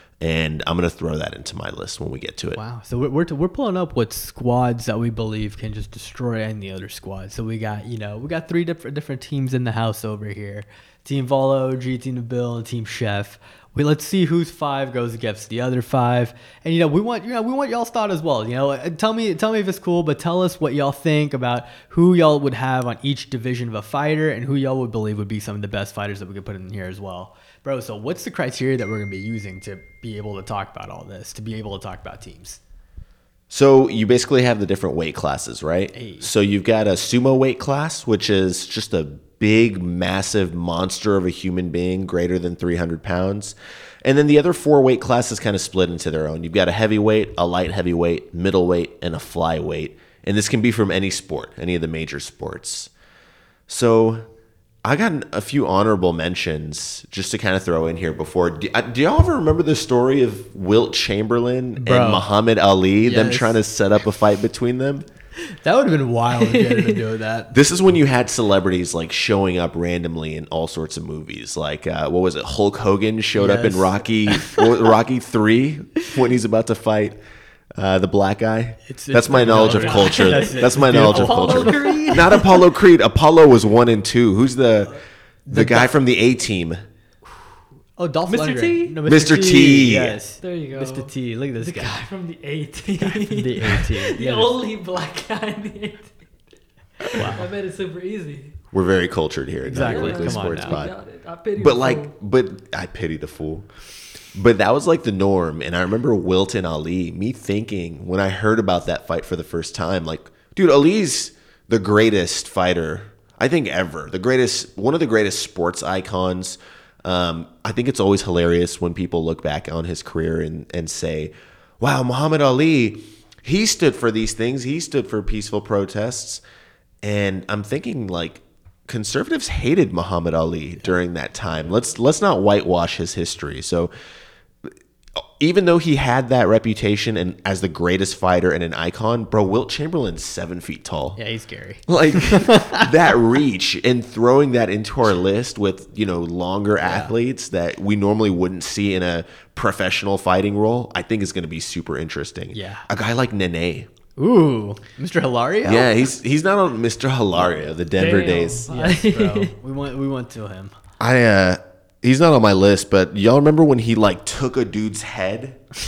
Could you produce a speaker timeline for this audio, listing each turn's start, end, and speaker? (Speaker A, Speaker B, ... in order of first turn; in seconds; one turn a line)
Speaker A: 0.2-2.6
Speaker B: 2.5-32.6
Speaker A: 33.5-52.9
Speaker B: 35.9-36.2
Speaker A: 53.7-54.2
Speaker A: 54.8-65.0
Speaker B: 61.8-62.2
Speaker B: 63.0-63.6
Speaker B: 65.6-67.6
Speaker C: 66.4-67.0
Speaker A: 67.5-77.2
Speaker B: 73.3-74.7
Speaker A: 77.8-84.9
Speaker B: 78.9-82.2
Speaker C: 79.5-82.6
Speaker B: 85.5-85.9
Speaker A: 85.5-86.8
Speaker B: 88.0-92.0
Speaker C: 88.3-89.0
Speaker A: 89.0-90.2
Speaker C: 90.4-96.1
Speaker B: 93.0-94.5
Speaker C: 97.0-98.5
Speaker B: 97.1-97.5
Speaker A: 98.7-100.9
Speaker B: 99.6-100.8
Speaker C: 99.8-102.1
Speaker A: 101.6-103.7
Speaker A: 104.3-126.4
Speaker A: 127.0-133.9
Speaker A: 135.4-141.2
Speaker B: 141.2-142.9
Speaker A: 141.9-153.9
Speaker B: 146.8-147.1
Speaker B: 152.5-152.8
Speaker B: 154.2-155.9
Speaker A: 155.6-158.7
Speaker B: 157.3-157.7
Speaker C: 157.9-159.5
Speaker B: 158.7-160.7
Speaker A: 161.0-165.6